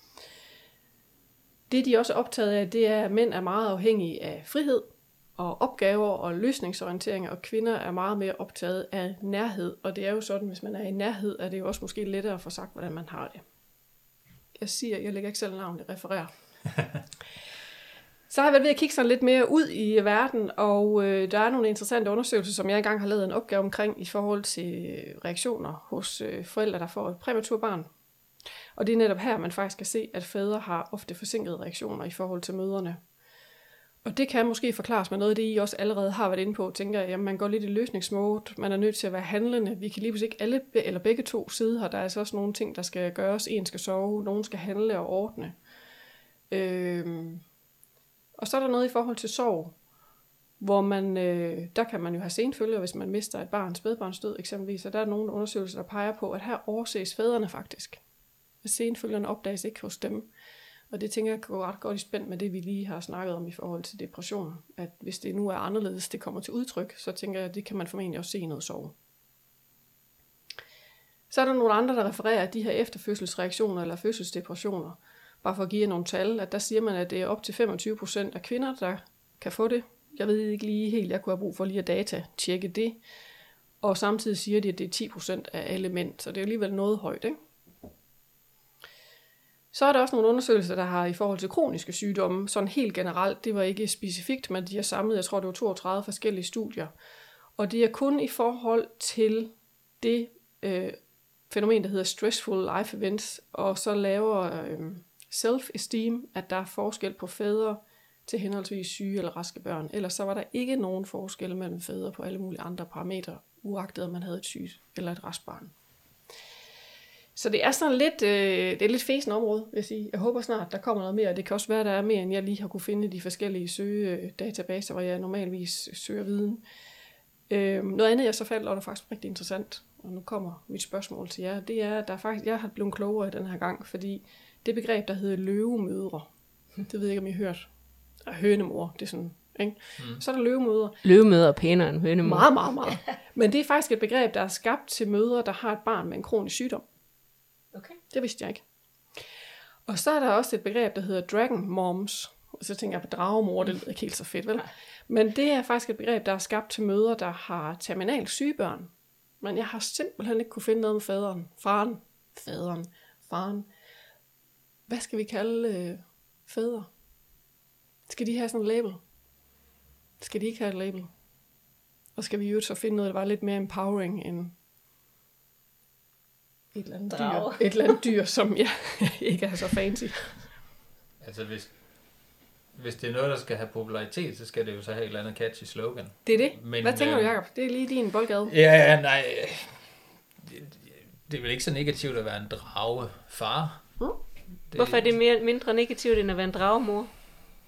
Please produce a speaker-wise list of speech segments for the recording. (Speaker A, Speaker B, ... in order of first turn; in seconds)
Speaker A: 1.7-13.4, 14.6-16.3, 18.3-27.9, 28.8-33.0, 34.0-45.6, 46.5-47.4, 48.4-49.8, 50.6-58.0, 58.6-60.3, 60.9-69.0, 71.3-83.0, 83.8-87.4, 89.7-96.9, 97.6-101.0, 101.5-115.7, 117.4-126.6, 127.5-136.3, 136.8-137.7, 138.2-141.0, 142.2-146.8, 148.1-148.6, 149.9-158.9, 159.4-163.7, 164.9-166.9, 168.1-169.0, 170.2-171.1, 172.2-174.5, 176.7-180.4, 186.3-188.5
Speaker B: 140.0-140.2, 181.2-181.8, 182.7-187.3, 188.5-193.9, 194.7-195.2
Speaker C: 141.0-142.5, 147.7-148.0, 177.1-178.0, 194.8-197.1